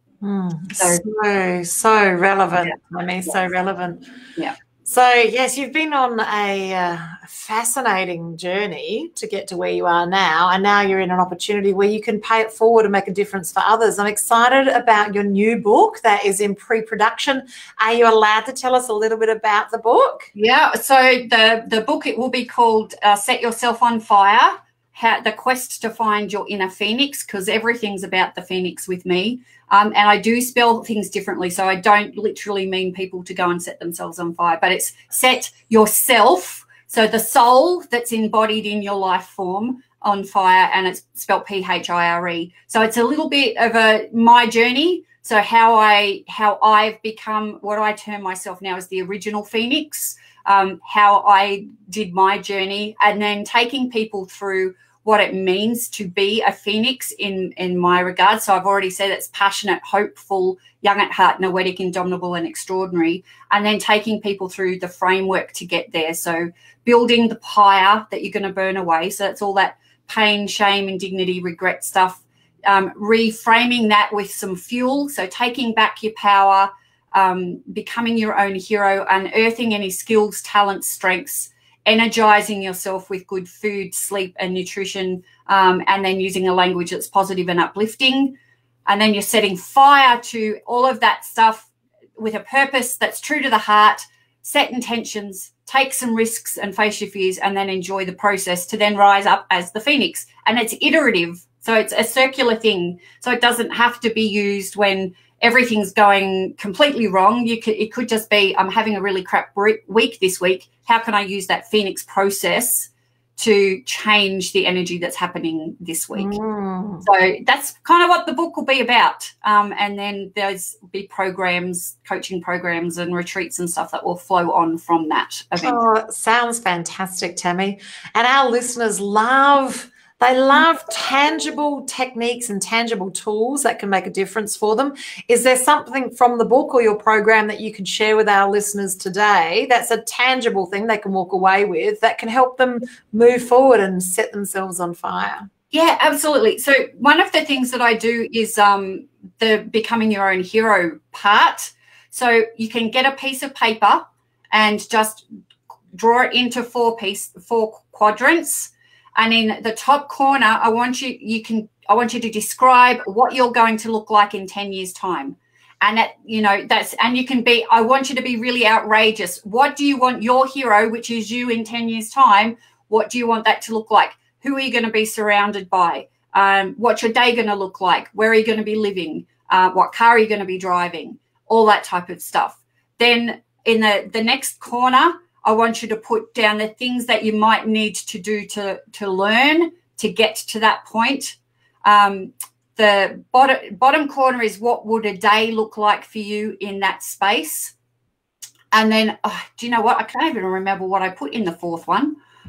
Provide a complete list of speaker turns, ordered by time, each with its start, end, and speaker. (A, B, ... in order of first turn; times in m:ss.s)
0:00.2-0:04.0 A
0:00.7-0:01.0 B
0:04.8-0:20.3 A
0:20.3-1:28.3 B
1:28.8-1:56.3 B
1:56.1-1:57.0 A
1:57.0-2:05.8 B
2:05.6-2:25.5 A
2:25.7-2:35.2 B
2:35.9-3:17.7 B
3:18.7-3:22.2 B